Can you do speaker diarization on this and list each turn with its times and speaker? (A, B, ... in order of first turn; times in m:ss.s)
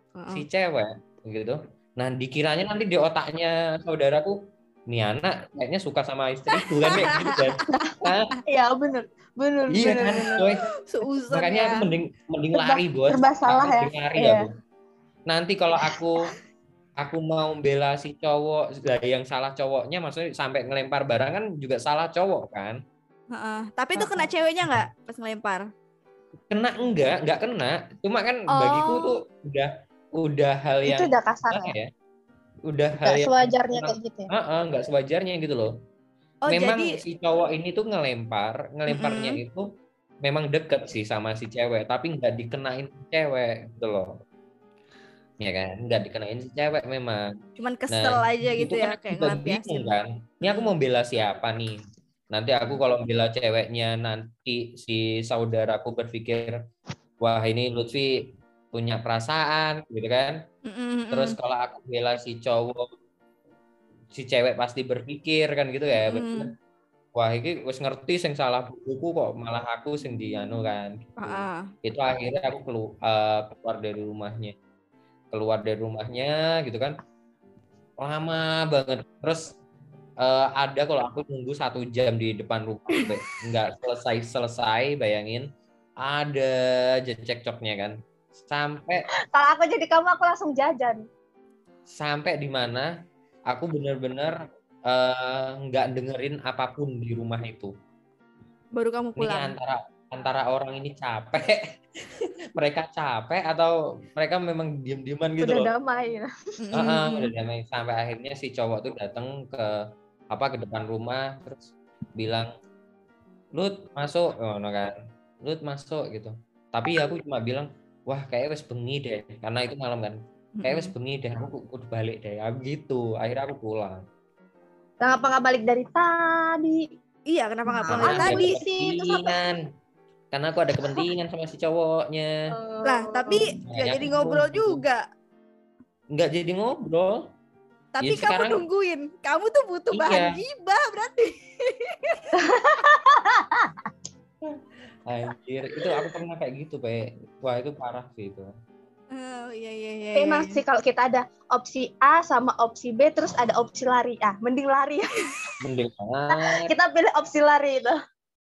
0:00.2-0:00.4 A
0:00.3-0:08.3 B
0:06.6-0:07.7 A
0:07.7-0:10.6 C
0:09.7-0:10.7 B
0:10.8-0:11.8 A
0:11.3-0:14.5 B
0:12.5-0:14.5 C
0:15.3-0:16.3 B
0:17.0-0:22.8 B
0:23.3-0:25.7 A
0:26.5-0:31.9 B
0:28.5-0:29.2 A
0:30.8-0:31.7 C
0:32.7-0:35.7 B
0:33.0-0:34.3 C
0:36.4-0:37.0 A
0:36.5-0:39.7 B
0:38.9-0:39.4 A
0:40.2-0:44.2 B
0:45.4-0:47.3 B
0:47.6-0:49.9 A
0:47.9-0:51.8 B
0:50.4-0:50.7 A
0:52.3-0:56.6 B
0:57.2-1:00.4 B
1:00.7-1:01.4 A
1:01.1-1:02.9 B
1:04.1-1:06.5 B
1:06.0-1:06.5 A
1:07.2-1:14.5 B
1:11.2-1:11.7 A
1:15.3-1:17.0 B
1:18.0-1:19.6 B
1:20.2-1:25.5 B
1:26.0-1:29.1 B
1:29.2-1:31.0 C
1:31.9-1:32.9 B
1:33.5-1:37.7 B
1:38.8-1:39.5 A
1:39.2-1:45.7 B
1:45.4-1:46.3 C
1:46.6-1:47.3 A
1:46.7-1:49.8 B
1:50.3-1:52.5 B
1:53.6-2:04.0 B
2:00.6-2:00.9 A
2:05.0-2:06.9 C
2:07.3-2:08.6 A
2:07.7-2:09.4 C
2:07.9-2:09.6 B
2:10.3-2:12.3 B
2:12.5-2:13.5 C
2:12.8-2:15.0 A
2:13.5-2:14.8 B
2:16.1-2:17.3 B
2:18.0-2:22.5 A
2:18.0-2:18.6 B
2:19.9-2:20.4 B
2:22.4-2:23.9 C
2:25.1-2:28.5 B
2:29.1-2:30.6 A
2:30.2-2:35.3 C
2:35.6-2:36.7 B
2:36.3-2:38.0 C